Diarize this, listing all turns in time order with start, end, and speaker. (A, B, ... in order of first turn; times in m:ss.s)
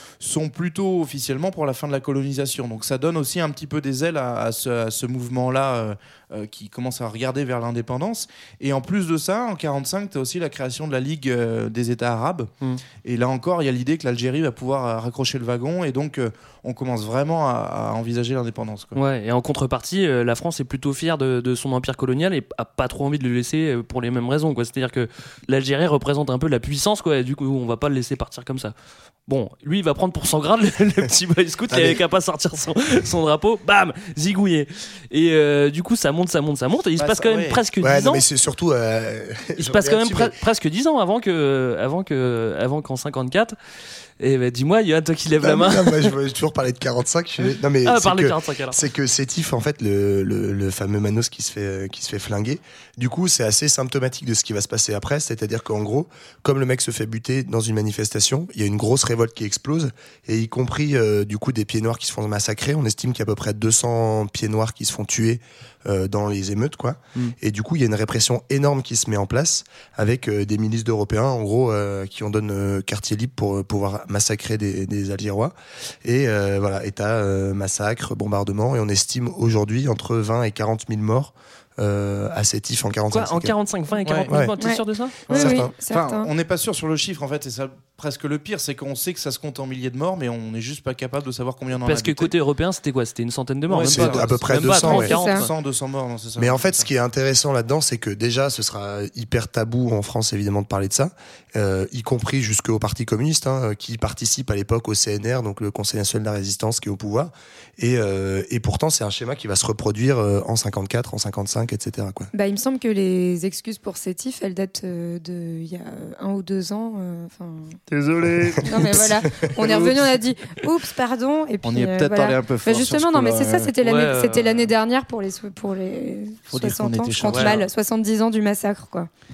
0:00.2-0:12.5 A
0:13.0-0:19.0 A
0:19.0-0:28.7 B
0:29.3-0:38.2 B
0:31.7-0:32.0 C
0:37.0-0:37.6 A
0:37.8-0:40.3 C
0:39.6-0:43.6 B
0:44.2-0:46.1 B
0:45.4-1:23.5 C
0:47.8-0:48.8 B
1:23.1-1:25.3 B
1:24.0-1:24.3 A
1:24.6-1:26.3 D
1:25.2-1:25.7 C
1:25.3-1:32.3 A
1:31.8-1:35.5 B
1:33.7-1:36.9 A
1:33.8-1:35.1 C
1:34.9-1:35.4 D
1:36.4-1:52.3 C
1:52.3-1:57.8 D
1:57.9-1:58.8 A
1:58.4-1:59.3 C
1:58.6-2:09.1 D
1:59.6-2:00.0 A
2:01.6-2:03.7 A
2:03.8-2:04.7 B
2:06.5-2:07.6 A
2:07.3-2:07.6 B